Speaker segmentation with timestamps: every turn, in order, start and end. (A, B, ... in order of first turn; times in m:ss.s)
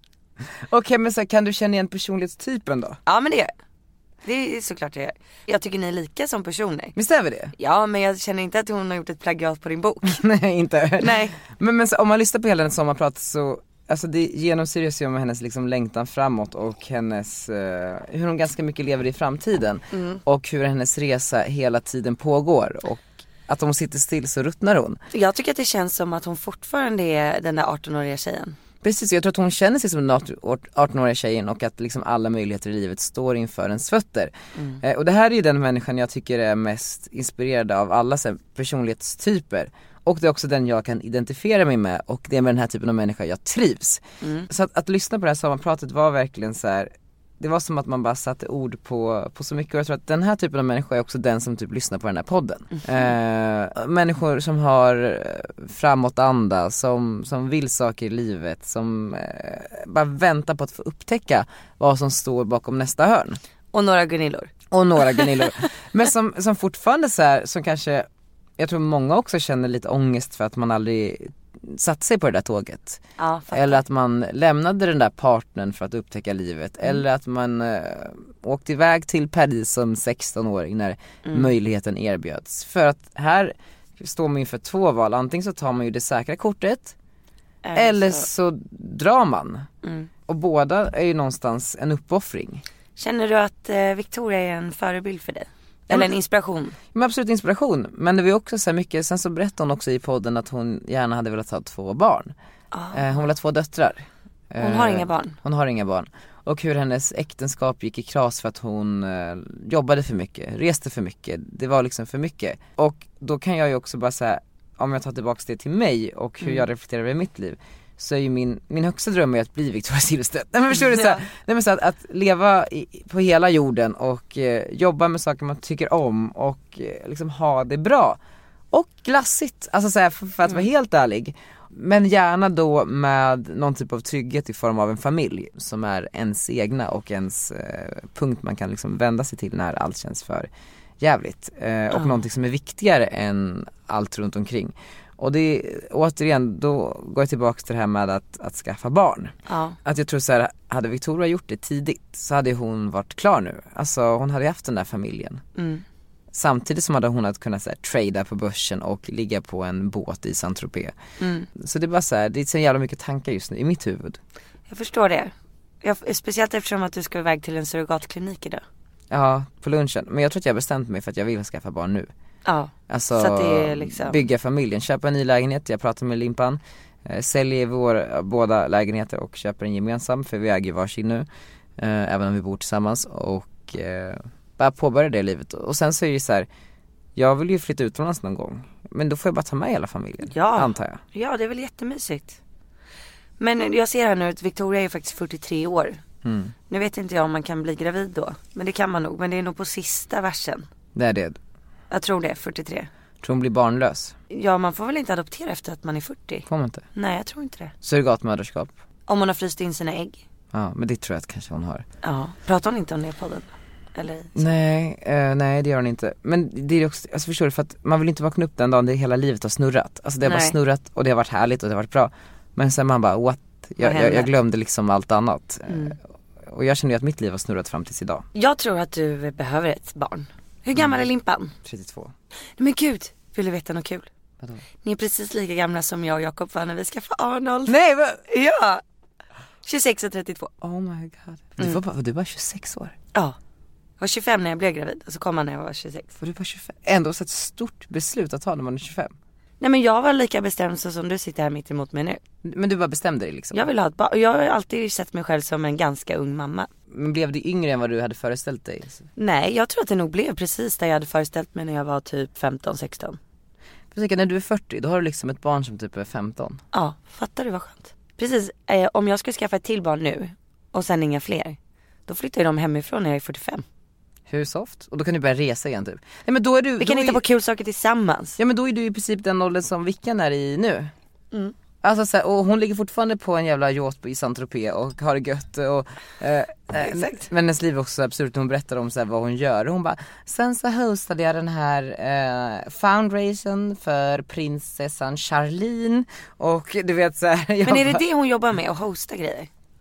0:00.7-0:03.0 A
0:03.1-0:03.5 B
0:04.2-0:06.9 B
0:07.0-0:07.5 A
0:07.6-0:10.2 B
0:10.1-0:25.0 A
0:11.0-0:11.4 B
0:19.9-0:20.2 B
0:25.1-0:28.6 B
0:28.8-1:03.4 A
0:34.6-0:34.8 B
0:44.2-0:44.5 B
1:03.7-1:04.5 B
1:04.7-1:13.0 A
1:13.2-1:13.8 B
1:13.5-1:27.0 A
1:21.2-1:21.5 B
1:27.6-1:28.3 B
1:27.8-1:29.7 A
1:29.8-1:30.1 B
1:30.3-1:32.6 A
1:33.0-1:36.8 B
1:36.9-1:42.3 A
1:42.7-1:43.0 B
1:42.9-2:08.2 A
1:44.6-1:45.4 B
2:00.9-2:01.2 B
2:08.7-2:35.4 A
2:21.9-2:22.2 B
2:29.5-2:29.8 B
2:35.6-2:35.8 B
2:36.3-2:40.9 A
2:41.2-2:41.5 B
2:41.6-2:44.2 A
2:44.7-2:48.6 B
2:49.1-2:52.1 A
2:52.4-2:54.2 B
2:52.9-3:01.3 A
3:01.8-3:06.5 A
3:07.2-3:11.0 A
3:10.3-3:12.4 B
3:13.4-3:16.0 B
3:16.2-3:16.5 A
3:16.7-3:20.7 B
3:21.0-3:21.4 A
3:21.9-3:22.9 B
3:23.2-3:24.2 A
3:24.3-3:27.7 B
3:26.5-3:26.8 A
3:27.8-3:28.7 A
3:29.1-3:30.2 B
3:30.5-3:31.8 A
3:32.0-3:34.3 B
3:34.4-3:48.3 A
3:40.2-3:40.6 B
3:43.8-3:44.3 B
3:45.7-3:46.0 B
3:48.4-3:51.5 B
3:50.8-3:51.0 A
3:51.6-3:52.1 A
3:52.6-3:54.1 B
3:54.8-3:57.8 B
3:57.7-3:58.2 A
3:58.3-3:58.8 B
3:59.6-4:00.5 B
4:00.6-4:03.0 A
4:04.0-4:06.1 B
4:06.2-4:09.1 A
4:09.6-4:12.2 B
4:12.4-4:13.7 A
4:13.5-4:16.7 B
4:16.9-4:19.1 A
4:19.2-4:23.2 B
4:23.9-4:26.6 A
4:26.7-4:33.6 B
4:34.3-4:37.2 A
4:36.8-4:38.4 B
4:38.4-4:40.9 A
4:41.8-4:58.0 A
4:46.8-4:47.3 B
4:57.6-4:59.5 B